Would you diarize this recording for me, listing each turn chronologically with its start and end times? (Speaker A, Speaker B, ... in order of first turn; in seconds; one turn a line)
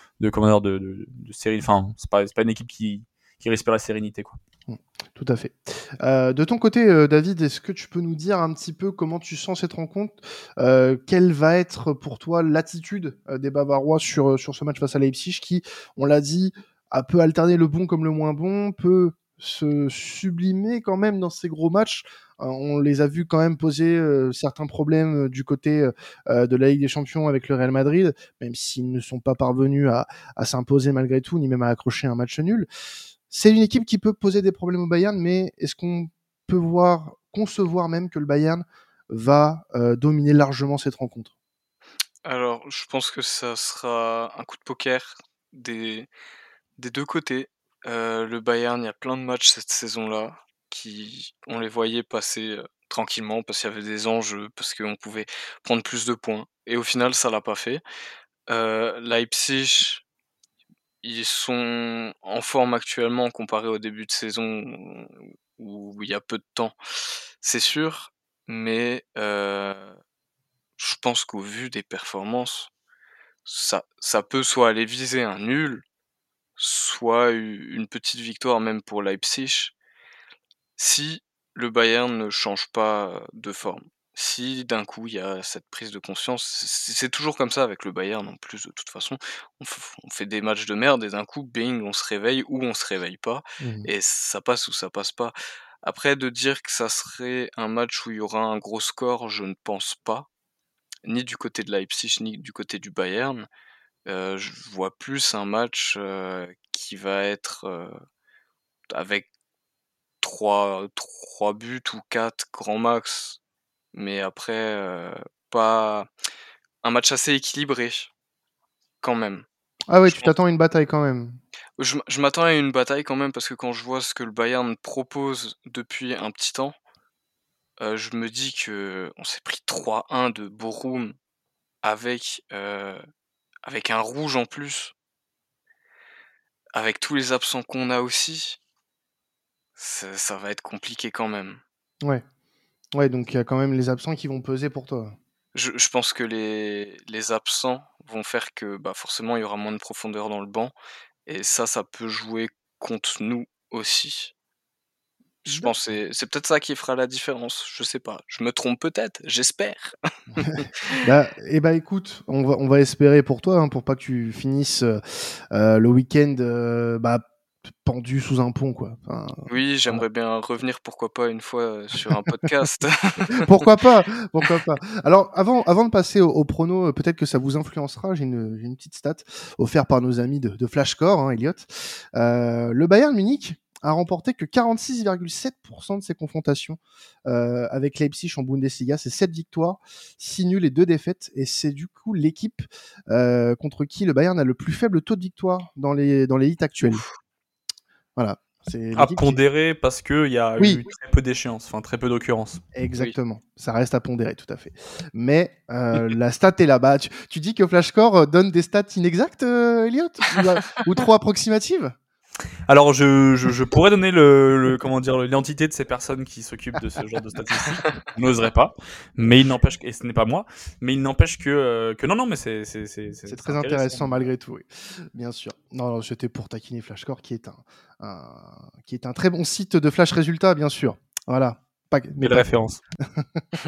Speaker A: 0.2-4.4
Speaker B: 4.7-32.7
Speaker B: 33.3-41.3
Speaker C: 42.2-46.1
Speaker C: 46.8-57.8
Speaker C: 58.5-60.0
Speaker C: 61.0-66.8
Speaker C: 67.4-70.0
Speaker C: 70.8-72.7
Speaker C: 73.5-75.8
Speaker C: 76.6-79.7
Speaker C: 80.8-100.3
Speaker B: 93.6-93.9
Speaker C: 101.0-103.5
Speaker C: 104.1-107.9
Speaker C: 108.9-109.3
Speaker C: 110.2-113.4
Speaker C: 113.9-116.1
Speaker C: 116.8-118.1
Speaker C: 119.0-119.5
Speaker B: 119.9-121.4
Speaker C: 120.1-120.3
Speaker C: 121.8-126.7
Speaker C: 127.8-131.2
Speaker C: 131.8-133.0
Speaker C: 133.7-134.9
Speaker C: 136.7-138.6
Speaker C: 139.8-141.6
Speaker B: 142.9-145.2
Speaker C: 145.5-150.7
Speaker C: 151.3-154.3
Speaker B: 155.5-155.8
Speaker C: 155.5-159.9
Speaker B: 160.4-167.2
Speaker C: 160.6-161.1
Speaker B: 167.8-170.0
Speaker C: 169.5-173.5
Speaker B: 173.3-197.1
Speaker B: 198.2-199.4
Speaker A: 199.0-202.6
Speaker B: 202.8-212.0
Speaker A: 212.7-224.2
Speaker B: 223.3-232.5
Speaker A: 232.2-232.8
Speaker B: 233.2-233.4